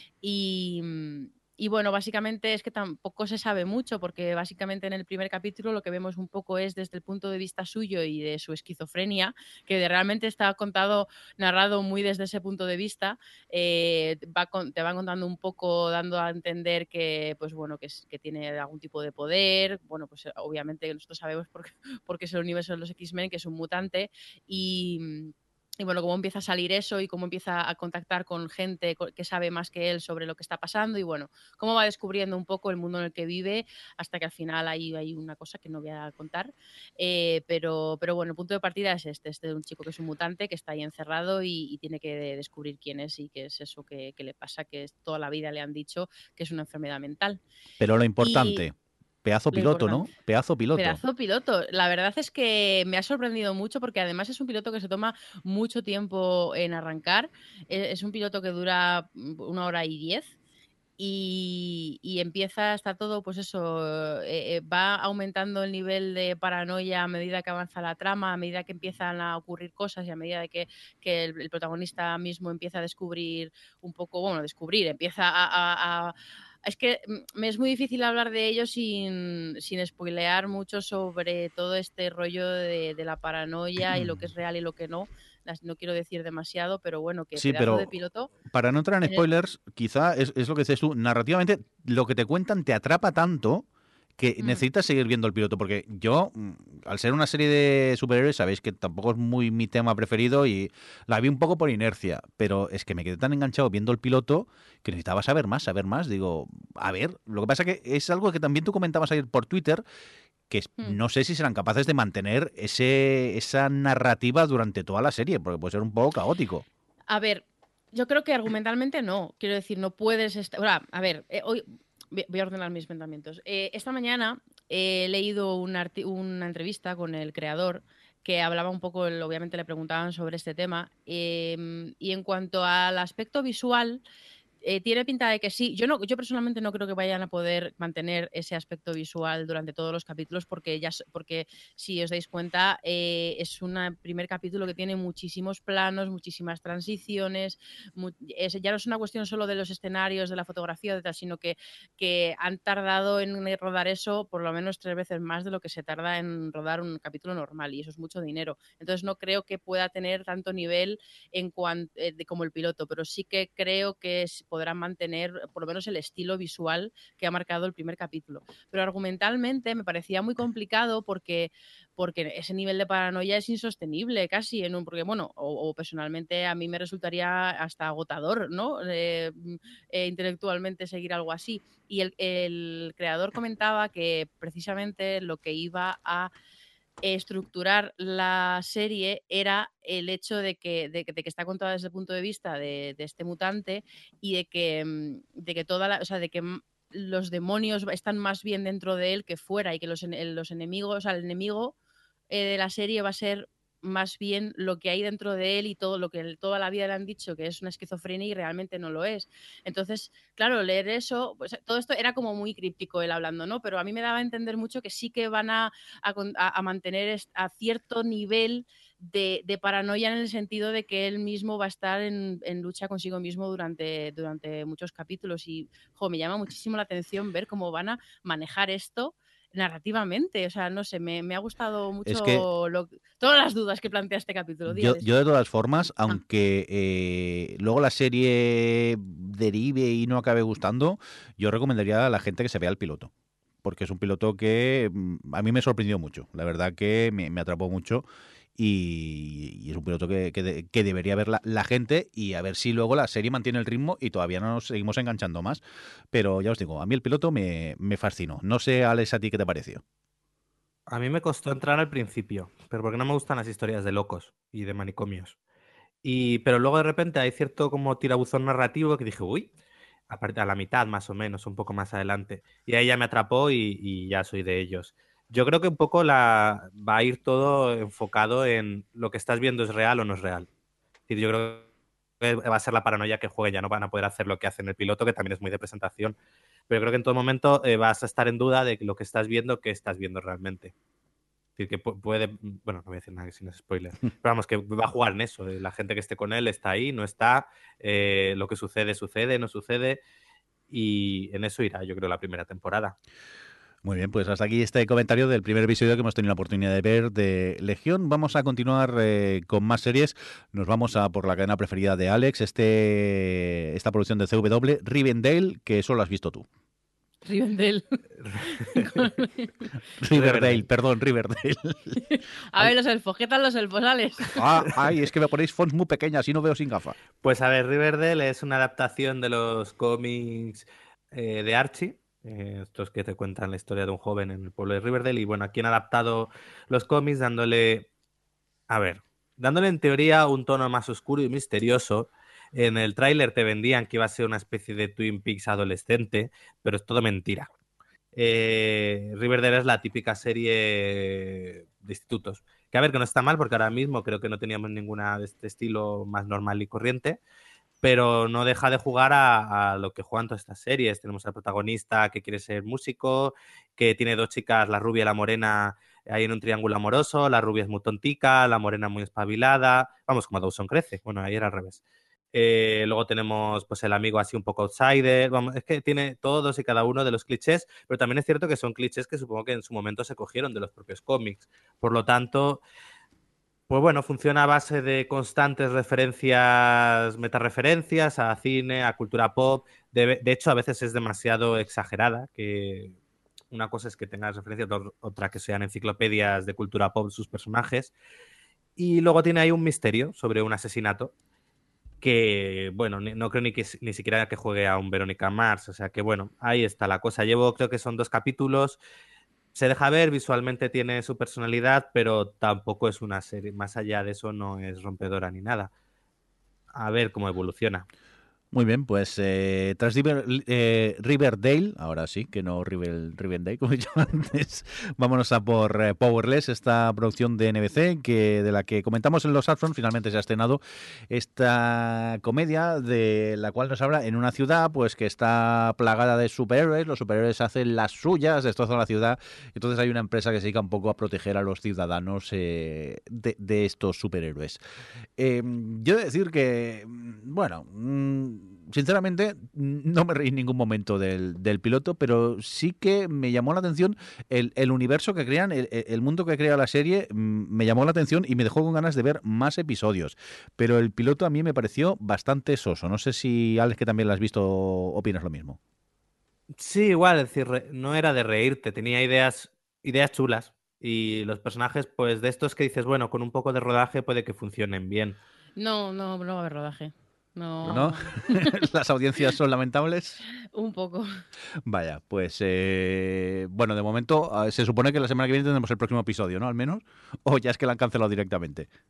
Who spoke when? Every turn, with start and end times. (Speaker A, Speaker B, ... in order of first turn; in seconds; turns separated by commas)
Speaker A: 0.2-47.4, Speaker B: 47.8-48.7, Speaker A: 48.2-48.6, Speaker B: 49.2-51.0, Speaker A: 49.5-50.1, Speaker A: 50.7-60.3, Speaker A: 61.0-88.3, Speaker B: 83.8-84.3, Speaker B: 87.3-87.9, Speaker B: 88.5-93.7, Speaker B: 94.2-109.8, Speaker B: 110.5-116.7, Speaker A: 117.1-134.0, Speaker A: 134.6-186.3, Speaker A: 187.0-201.7, Speaker A: 202.3-235.1, Speaker B: 232.1-232.4, Speaker B: 234.7-243.1, Speaker B: 243.6-248.0, Speaker B: 248.6-259.8, Speaker C: 260.9-265.4, Speaker C: 266.0-269.5, Speaker C: 270.1-280.5, Speaker C: 281.1-281.7, Speaker C: 282.2-286.1, Speaker C: 286.7-290.7, Speaker C: 291.6-300.0, Speaker C: 300.7-302.9, Speaker B: 303.8-316.4, Speaker A: 317.2-319.5, Speaker C: 318.2-318.8, Speaker B: 320.0-322.0, Speaker C: 320.1-320.6, Speaker A: 322.1-324.4, Speaker B: 324.3-326.9, Speaker C: 327.2-337.9, Speaker C: 338.7-347.5, Speaker C: 348.1-357.2, Speaker C: 357.8-371.8, Speaker C: 372.3-382.6, Speaker C: 383.7-393.0, Speaker C: 393.5-397.9, Speaker C: 398.8-401.1, Speaker C: 402.0-408.8, Speaker C: 409.5-415.7, Speaker C: 416.7-417.9, Speaker B: 418.5-444.6, Speaker B: 445.2-465.6, Speaker C: 466.6-475.2, Speaker A: 475.6-478.5, Speaker B: 477.6-480.2, Speaker A: 480.5-481.1, Speaker B: 481.6-488.7